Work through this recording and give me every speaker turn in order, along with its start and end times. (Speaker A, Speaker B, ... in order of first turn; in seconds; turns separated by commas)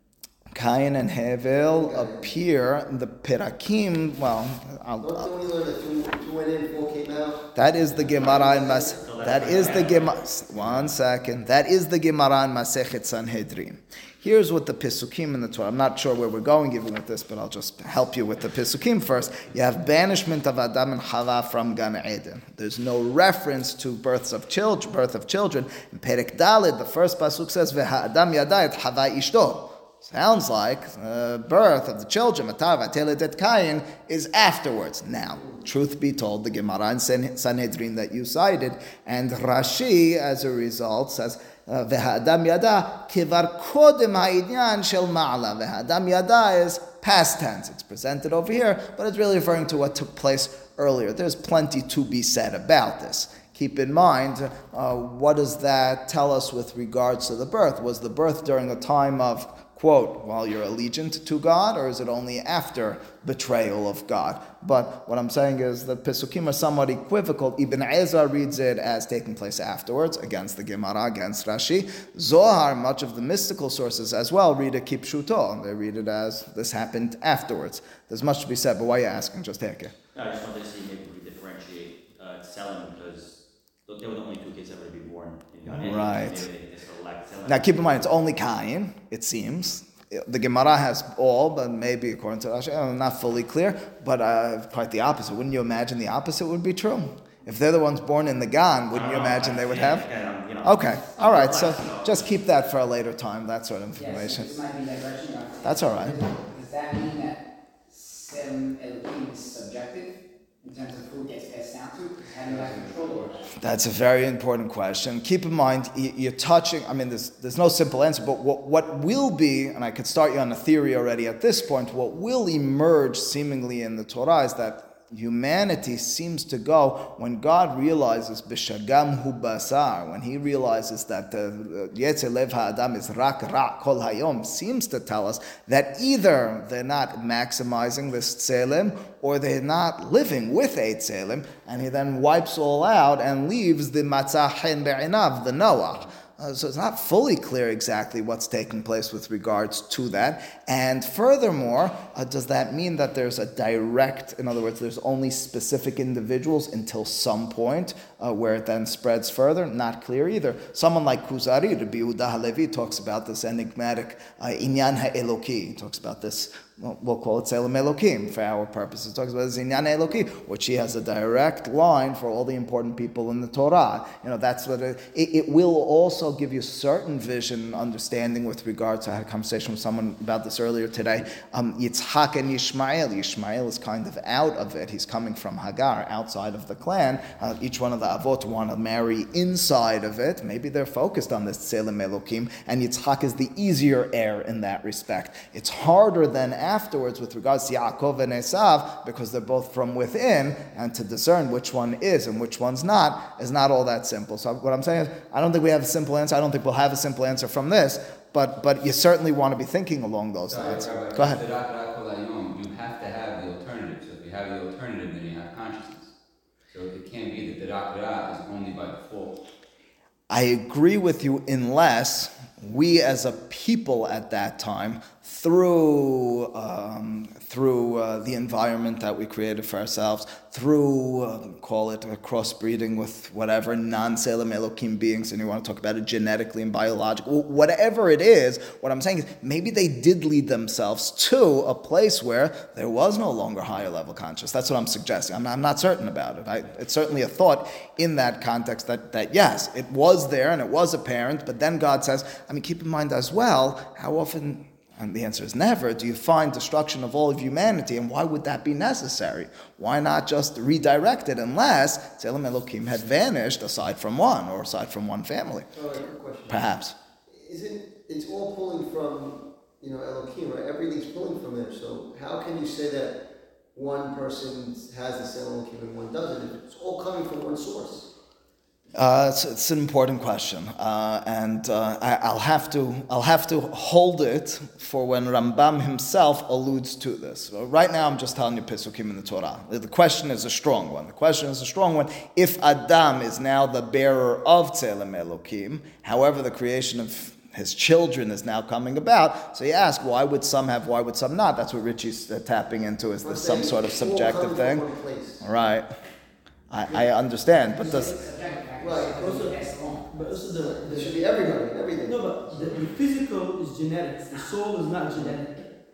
Speaker A: 0.5-5.4, Speaker B: 1.5-2.3, Speaker B: 5.0-7.5, Speaker A: 7.5-79.9, Speaker C: 8.0-10.9, Speaker B: 8.2-9.0, Speaker C: 80.1-88.1, Speaker A: 85.7-86.5, Speaker A: 87.5-100.1, Speaker C: 98.9-102.3, Speaker A: 100.6-104.6, Speaker D: 103.9-113.5, Speaker A: 105.6-106.2, Speaker A: 113.6-211.4, Speaker E: 210.5-216.1, Speaker E: 216.7-219.4, Speaker A: 220.3-265.7, Speaker B: 265.7-266.7, Speaker A: 266.5-266.9, Speaker B: 267.3-278.1, Speaker A: 278.9-304.9, Speaker B: 303.2-305.4, Speaker A: 305.4-305.9, Speaker A: 306.7-308.2, Speaker D: 307.6-310.4, Speaker B: 308.8-309.2, Speaker F: 309.1-311.2, Speaker B: 310.8-312.2, Speaker F: 312.0-315.5